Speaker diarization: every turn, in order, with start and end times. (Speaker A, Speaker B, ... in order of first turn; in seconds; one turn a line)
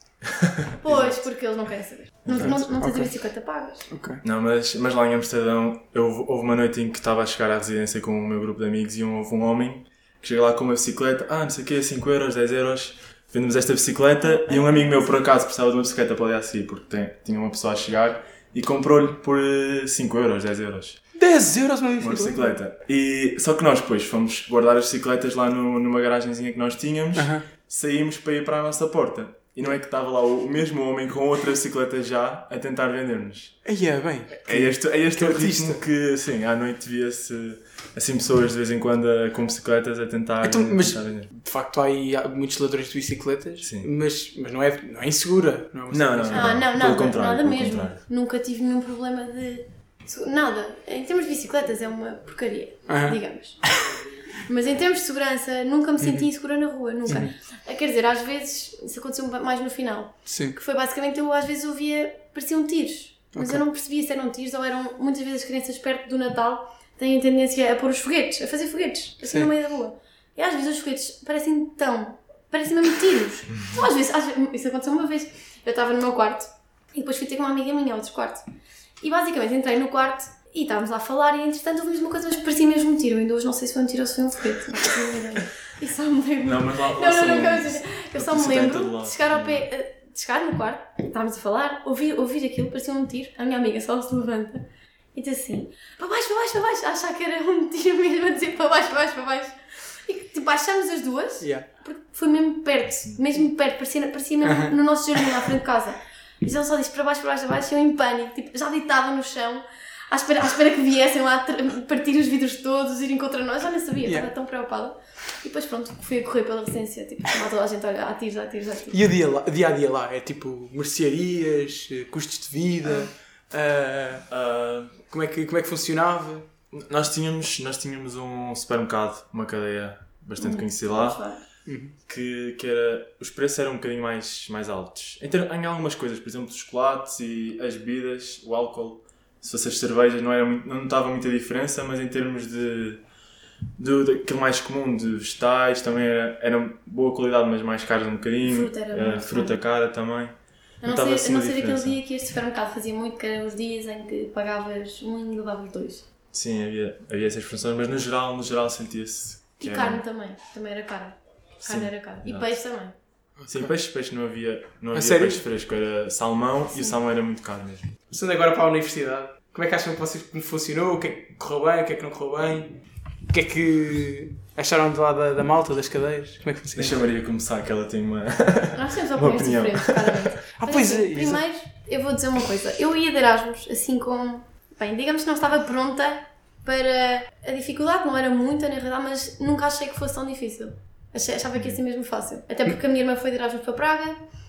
Speaker A: 0.3-1.2
Speaker B: 0.8-3.9
Speaker A: 2.2-2.6
Speaker C: 2.4-3.1
Speaker C: 3.9-4.2
Speaker A: 4.2-21.0
Speaker B: 14.3-15.1
Speaker C: 21.1-22.5
Speaker A: 22.0-33.6
Speaker C: 27.1-27.5
Speaker C: 33.6-35.8
Speaker A: 34.5-41.3
Speaker C: 40.4-46.6
Speaker A: 43.6-43.9
Speaker A: 45.9-48.0
Speaker B: 46.3-53.7
Speaker C: 52.9-53.8
Speaker B: 54.5-78.5
Speaker C: 56.0-56.3
Speaker C: 57.1-57.3
Speaker C: 60.3-60.6
Speaker C: 63.4-63.6
Speaker C: 69.3-69.5
Speaker B: 79.0-119.0
Speaker A: 86.4-89.7
Speaker C: 101.4-101.7
Speaker C: 104.4-105.3
Speaker C: 118.9-124.3
Speaker A: 124.3-125.0
Speaker C: 125.1-126.5
Speaker A: 126.7-131.2
Speaker B: 130.4-131.4
Speaker C: 131.7-131.9
Speaker A: 132.1-143.0
Speaker A: 143.8-152.0
Speaker B: 148.4-149.6
Speaker B: 150.8-156.1
Speaker A: 156.3-160.0
Speaker B: 159.6-162.9
Speaker A: 161.6-162.5
Speaker C: 163.4-163.7
Speaker A: 163.5-167.9
Speaker C: 164.9-165.4
Speaker C: 168.1-177.0
Speaker A: 176.8-180.1
Speaker B: 178.7-194.2
Speaker C: 180.6-181.4